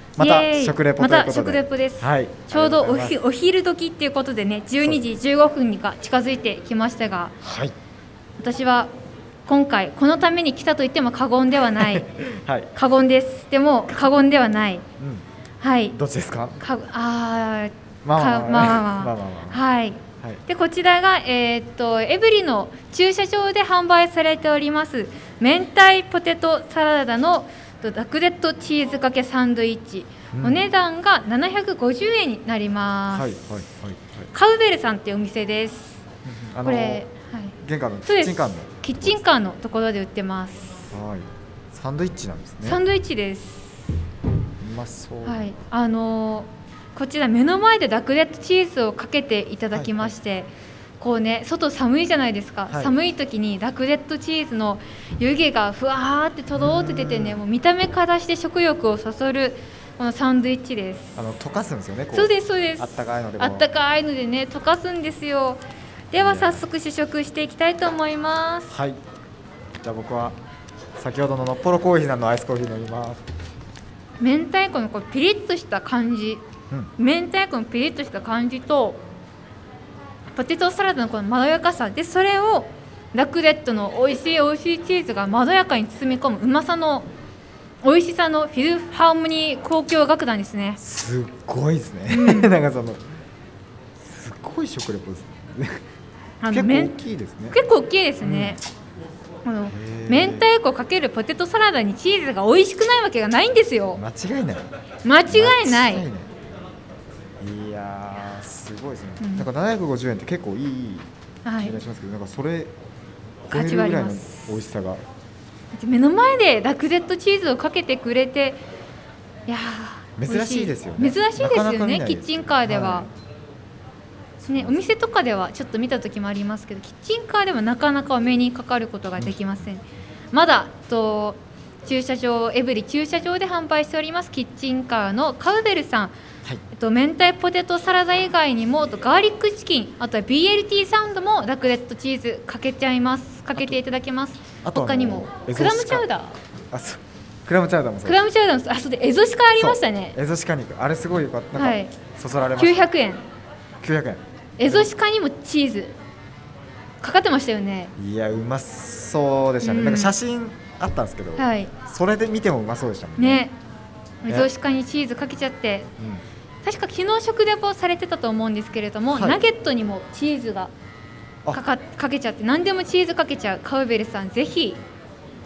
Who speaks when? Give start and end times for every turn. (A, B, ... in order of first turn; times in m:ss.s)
0:00.2-0:03.2 A
0:00.2-0:07.4 B
0:07.4-0:07.7 A
0:08.4-0:08.9 B
0:09.4-0:12.1 B
0:11.8-0:12.7 A
0:12.7-0:14.8 B
0:15.0-0:15.2 A
0:15.6-0:16.0 B
0:15.9-0:16.6 A
0:16.6-0:33.3 B
0:18.0-0:19.6 A
0:30.3-0:30.6 A
0:33.1-0:34.3 A
0:34.3-0:36.0 B
0:36.2-0:37.0 A
0:36.6-0:40.9 B
0:37.6-0:39.2 A
0:40.9-0:42.8 A
0:42.6-0:43.9 B
0:44.6-0:45.4 A
0:45.2-1:01.2 B
0:49.7-0:50.1 A
0:52.7-0:52.9 A
0:56.5-0:57.4 A
1:01.2-1:03.6 A
1:02.1-1:08.7 B
1:06.1-1:06.6 A
1:08.7-1:09.0 A
1:09.8-1:10.4 A
1:11.0-1:13.2 A
1:14.2-1:16.4 B
1:17.0-1:19.0 B
1:20.3-1:27.1 B
1:27.8-1:30.8 B
1:30.8-1:33.0 A
1:32.1-1:32.6 B
1:34.0-1:35.8 A
1:36.4-1:37.0 B
1:36.5-1:37.6 A
1:37.5-1:38.6 B
1:38.2-1:38.6 A
1:39.4-1:44.0 B
1:39.7-1:40.5 A
1:43.9-1:44.6 A
1:45.0-1:46.0 B
1:45.3-1:46.3 A
1:47.4-1:51.1 A
1:49.2-1:49.5 B
1:51.4-1:51.8 B
1:51.6-1:52.7 A
1:53.5-1:55.0 A
1:53.5-1:54.5 B
1:55.7-1:58.6 B
1:59.5-2:03.1 B
2:00.2-2:03.1 A
2:04.4-2:04.8 A
2:04.5-2:16.1 B
2:09.2-2:09.5 A
2:16.7-2:26.4 B
2:24.6-2:26.0 A
2:26.7-2:28.2 A
2:28.0-2:30.2 B
2:29.6-2:32.8 A
2:31.5-2:31.9 B
2:32.6-2:33.2 B
2:33.8-2:34.9 A
2:34.6-2:35.9 B
2:37.0-2:37.9 B
2:38.0-2:43.4 A
2:39.6-2:40.1 B
2:41.4-2:41.7 B
2:43.2-2:43.5 B
2:44.2-2:45.9 B
2:46.0-2:46.2 A
2:46.6-2:50.7 B
2:49.1-2:49.4 A
2:51.5-2:54.8 B